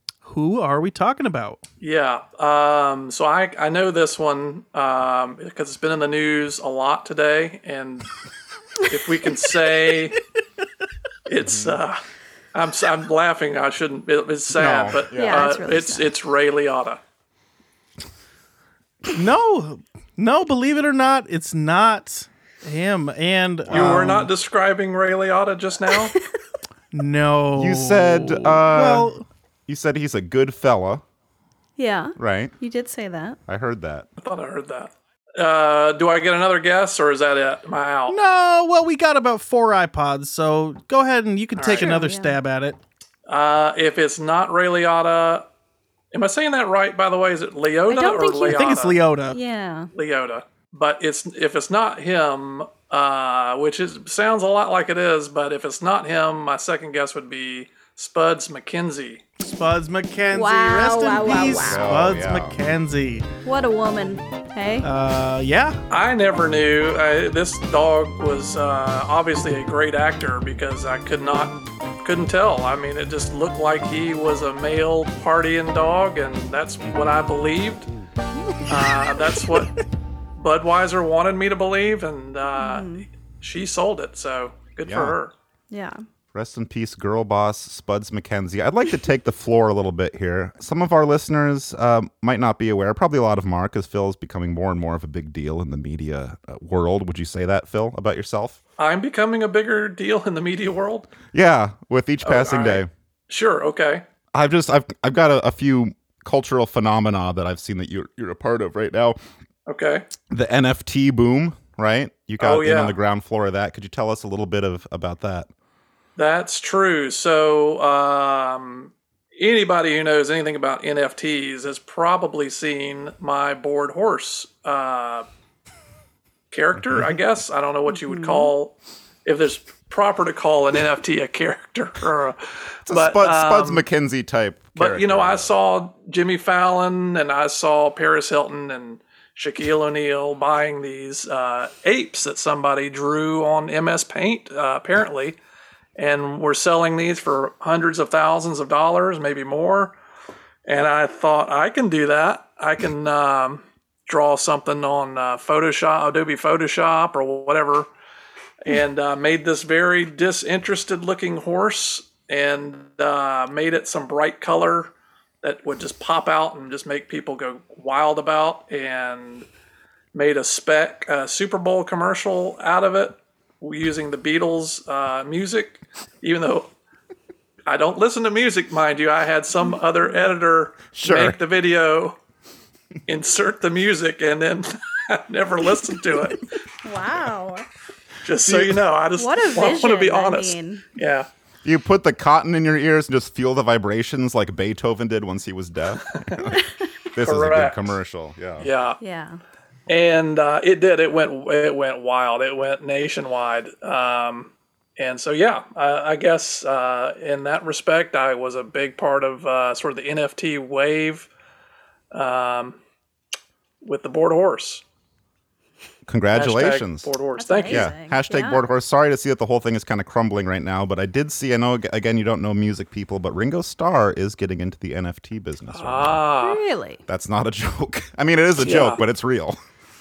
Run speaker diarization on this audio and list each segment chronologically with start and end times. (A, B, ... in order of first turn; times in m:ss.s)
0:00.2-0:01.6 A
0:01.8-0:08.1 B
0:08.9-0:10.2 B
0:11.3-0:12.0 B
0:11.4-0:11.8 C
0:12.5-0:17.0 B
0:14.5-0:15.4 C
0:15.1-0:16.1 D
0:19.1-0:24.3 A
0:23.7-0:26.1 B
0:23.7-0:24.2 C
0:26.9-0:29.3 A
0:27.6-0:29.1 C
0:29.7-0:31.0 C
0:31.8-0:33.4 D
0:32.2-0:32.5 C
0:33.5-0:34.1 C
0:34.2-0:38.2 B
0:38.1-0:42.8 A
0:41.6-0:42.0 B
0:41.8-0:42.4 D
0:43.3-0:45.5 B
0:46.1-0:49.0 B
0:47.9-0:48.8 D
0:48.5-0:49.4 A
0:49.3-0:49.9 D
0:49.9-0:59.2 B
0:59.4-1:03.3 A
1:00.3-1:01.8 D
1:01.6-1:02.6 C
1:03.4-1:04.9 D
1:04.8-1:05.8 A
1:05.9-1:17.9 B
1:16.8-1:17.2 C
1:18.7-1:19.7 B
1:20.4-1:25.3 B
1:22.6-1:23.1 D
1:24.8-1:25.2 C
1:25.7-1:26.0 D
1:26.3-1:38.6 C
1:38.8-1:41.1 B
1:41.3-1:42.9 C
1:42.2-1:44.0 B
1:44.3-1:49.2 C
1:49.6-1:50.1 B
1:50.3-1:55.5 C
1:52.4-1:53.0 B
1:56.2-2:05.3 B
2:06.5-2:13.9 B
2:06.8-2:07.1 C
2:07.9-2:08.5 D
2:12.9-2:15.5 C
2:14.8-2:25.4 B
2:26.0-2:30.0 B
2:30.6-2:37.9 B
2:38.6-2:49.5 B
2:50.1-2:56.7 B
2:57.6-3:02.2 B
3:00.9-3:01.4 C
3:03.1-3:06.4 B
3:06.8-3:07.6 D
3:08.2-3:11.3 B
3:08.4-3:08.8 C
3:09.2-3:10.8 D
3:11.6-3:16.6 C
3:16.1-3:16.4 B
3:17.1-3:18.7 C
3:17.2-3:17.9 B
3:18.6-3:19.0 B
3:19.0-3:19.4 D
3:19.9-3:31.3 B
3:32.1-3:32.8 B
3:33.8-3:34.8 B
3:36.1-3:37.1 C
3:36.3-3:37.9 B
3:37.4-3:38.6 D
3:37.7-3:46.2 C
3:45.7-3:46.6 B
3:46.4-3:47.0 D
3:47.1-3:49.6 C
3:48.6-3:49.0 B